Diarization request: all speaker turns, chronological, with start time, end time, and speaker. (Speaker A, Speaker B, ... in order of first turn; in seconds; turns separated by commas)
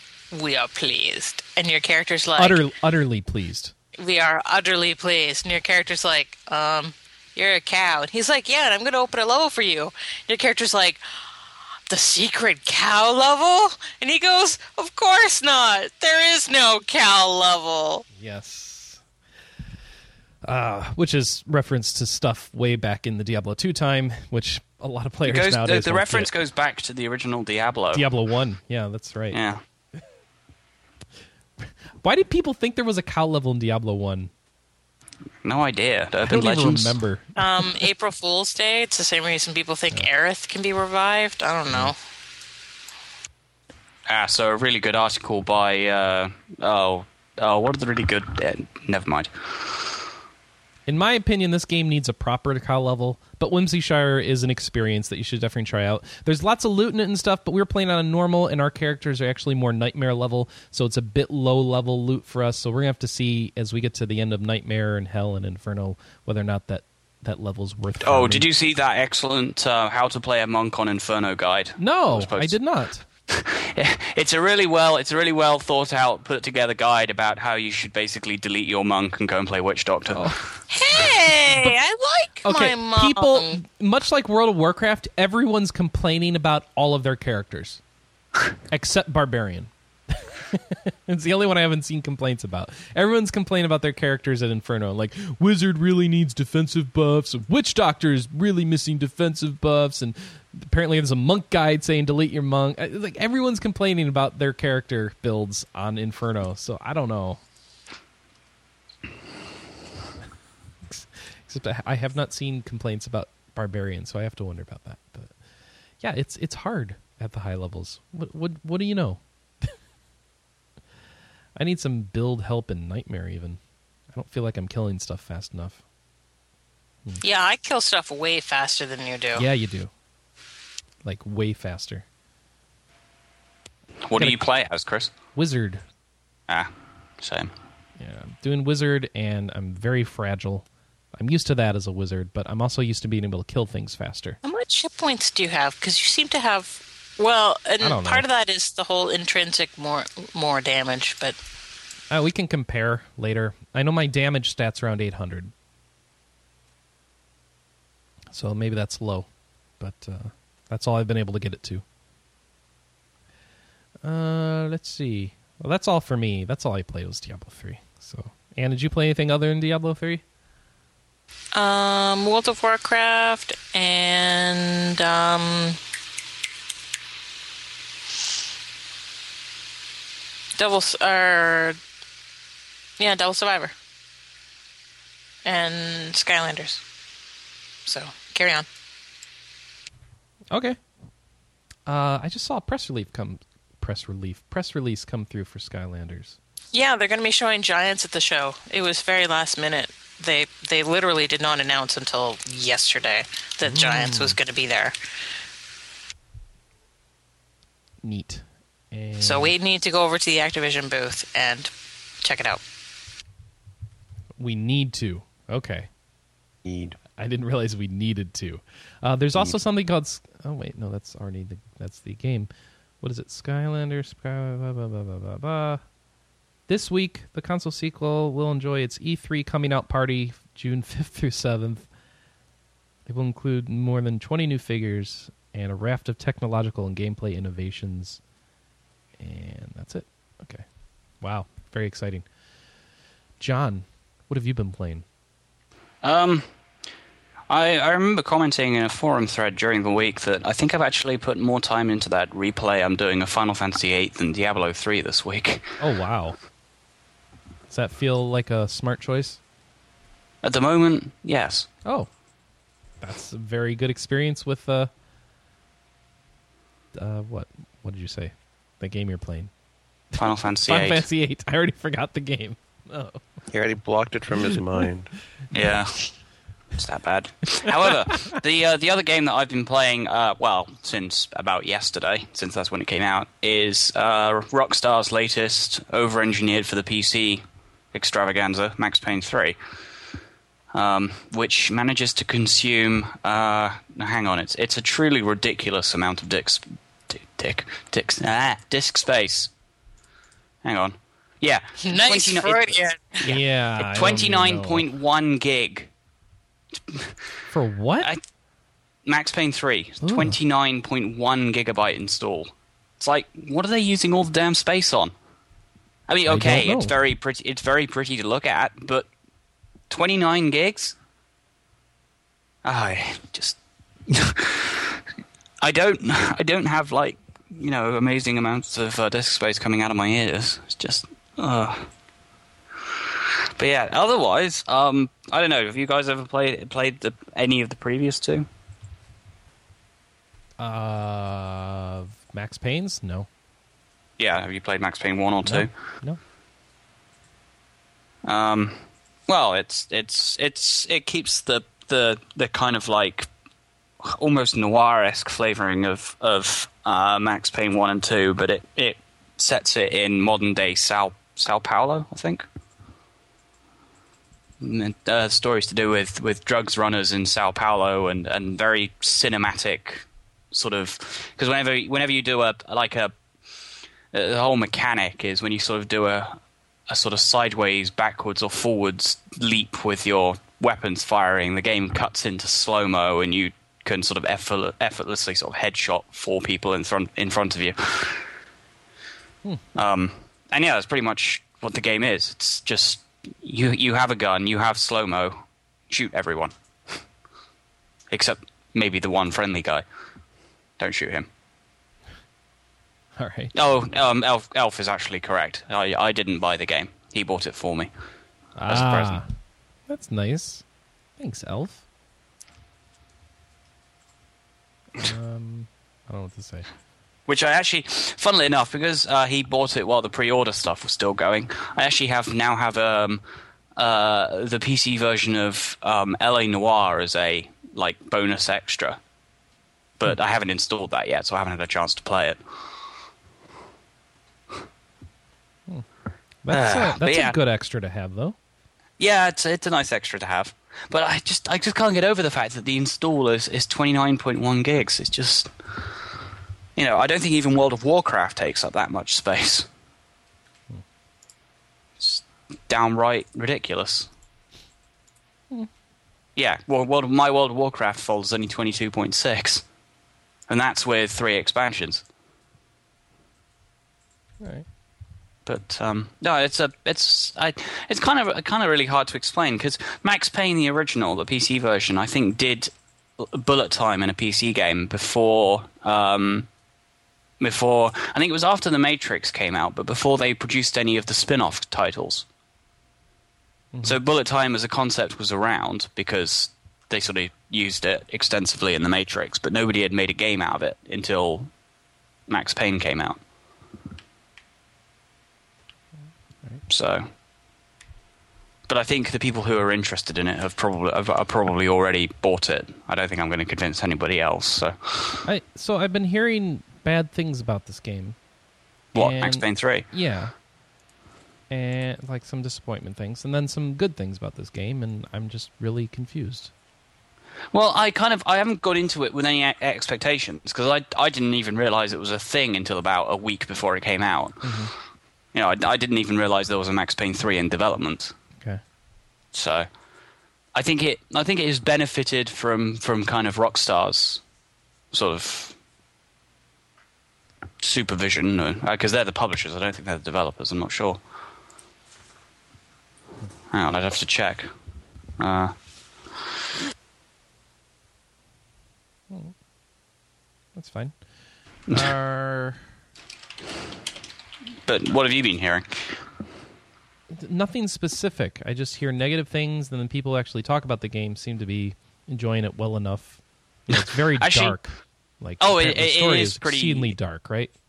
Speaker A: 0.3-2.6, Speaker B: 2.4-3.7, Speaker A: 4.0-11.0, Speaker A: 11.9-18.0, Speaker B: 18.2-19.0, Speaker B: 20.4-26.3, Speaker C: 25.2-28.1, Speaker B: 27.9-29.4, Speaker C: 29.3-29.6, Speaker B: 31.6-34.3, Speaker C: 35.4-36.9, Speaker B: 36.2-37.6, Speaker A: 37.4-42.0, Speaker C: 44.1-49.9, Speaker B: 50.9-68.5, Speaker C: 68.0-72.5, Speaker B: 71.8-73.0, Speaker C: 73.3-80.4, Speaker B: 80.1-80.4, Speaker A: 80.7-83.6, Speaker B: 82.4-87.8, Speaker B: 88.7-107.4, Speaker B: 110.9-115.3, Speaker B: 116.0-119.7, Speaker B: 121.5-123.6, Speaker B: 124.1-125.8, Speaker A: 127.2-129.4, Speaker B: 129.3-129.9, Speaker B: 131.0-132.0, Speaker C: 134.1-135.1, Speaker B: 134.2-134.4, Speaker B: 135.3-135.8, Speaker C: 137.2-137.5, Speaker B: 138.0-144.4, Speaker A: 144.4-151.4, Speaker B: 147.8-148.2, Speaker B: 152.1-155.5, Speaker B: 158.3-159.3, Speaker B: 159.8-161.8, Speaker B: 164.0-170.2, Speaker A: 171.5-175.8, Speaker A: 180.6-181.8, Speaker A: 183.0-183.7, Speaker A: 185.4-186.8, Speaker A: 187.8-188.7, Speaker B: 190.5-190.8, Speaker B: 191.8-196.4, Speaker A: 196.7-204.9, Speaker B: 203.6-204.4, Speaker B: 208.0-209.5, Speaker A: 209.2-212.6, Speaker B: 214.4-215.9, Speaker D: 216.6-217.0, Speaker B: 217.2-222.5, Speaker B: 223.0-225.8, Speaker B: 226.7-231.8, Speaker B: 233.1-238.2, Speaker B: 239.2-240.6, Speaker B: 241.2-242.2, Speaker B: 243.4-245.0, Speaker C: 246.0-246.4, Speaker C: 247.5-255.8, Speaker B: 255.8-256.4, Speaker B: 257.7-259.4, Speaker C: 260.4-261.7, Speaker B: 263.0-264.9, Speaker B: 266.9-269.5, Speaker B: 270.1-273.2, Speaker C: 270.2-271.1, Speaker D: 273.5-275.1, Speaker C: 275.5-276.1, Speaker C: 276.7-287.4, Speaker C: 287.9-289.6, Speaker C: 290.7-299.5, Speaker C: 300.6-305.9, Speaker A: 301.8-303.2, Speaker B: 303.2-304.8, Speaker C: 306.8-307.1, Speaker B: 307.5-308.1, Speaker C: 309.1-315.1, Speaker B: 310.0-310.4, Speaker C: 316.1-319.1, Speaker B: 316.2-316.9, Speaker C: 319.9-320.9, Speaker C: 322.6-325.0, Speaker C: 325.6-331.9, Speaker C: 333.6-338.5, Speaker B: 340.6-343.3, Speaker C: 344.2-345.7, Speaker B: 345.4-346.2, Speaker C: 348.2-353.3, Speaker C: 354.0-362.4, Speaker C: 364.6-373.1, Speaker C: 374.1-376.4, Speaker C: 376.9-388.2, Speaker C: 389.7-396.5, Speaker C: 398.1-399.8, Speaker C: 400.8-401.3, Speaker B: 403.2-403.5, Speaker C: 403.5-407.9, Speaker B: 408.6-409.2, Speaker C: 408.7-409.2, Speaker B: 409.9-410.6, Speaker B: 411.2-411.8, Speaker B: 415.0-416.7, Speaker C: 417.3-423.2, Speaker C: 423.8-429.0, Speaker C: 430.0-432.4, Speaker B: 436.4-438.4, Speaker C: 436.5-437.4, Speaker C: 439.0-445.9, Speaker C: 446.8-449.7, Speaker C: 452.0-454.1, Speaker C: 456.4-459.6, Speaker C: 460.5-462.0, Speaker C: 465.4-476.5, Speaker C: 477.4-482.2, Speaker C: 483.8-491.5, Speaker C: 492.3-493.2, Speaker C: 496.7-497.1, Speaker C: 498.7-505.2, Speaker B: 505.2-508.1, Speaker C: 508.9-509.9, Speaker B: 508.9-510.3, Speaker B: 511.5-516.5, Speaker C: 517.5-524.6, Speaker B: 524.4-524.7, Speaker C: 525.3-528.1, Speaker C: 529.3-529.6, Speaker C: 530.5-534.2, Speaker C: 534.9-535.5, Speaker C: 537.6-541.0, Speaker C: 543.5-544.5, Speaker C: 545.2-545.5, Speaker B: 550.5-550.9, Speaker B: 551.7-552.6, Speaker C: 554.6-556.0, Speaker B: 557.1-567.5, Speaker C: 563.7-564.6, Speaker C: 565.4-566.9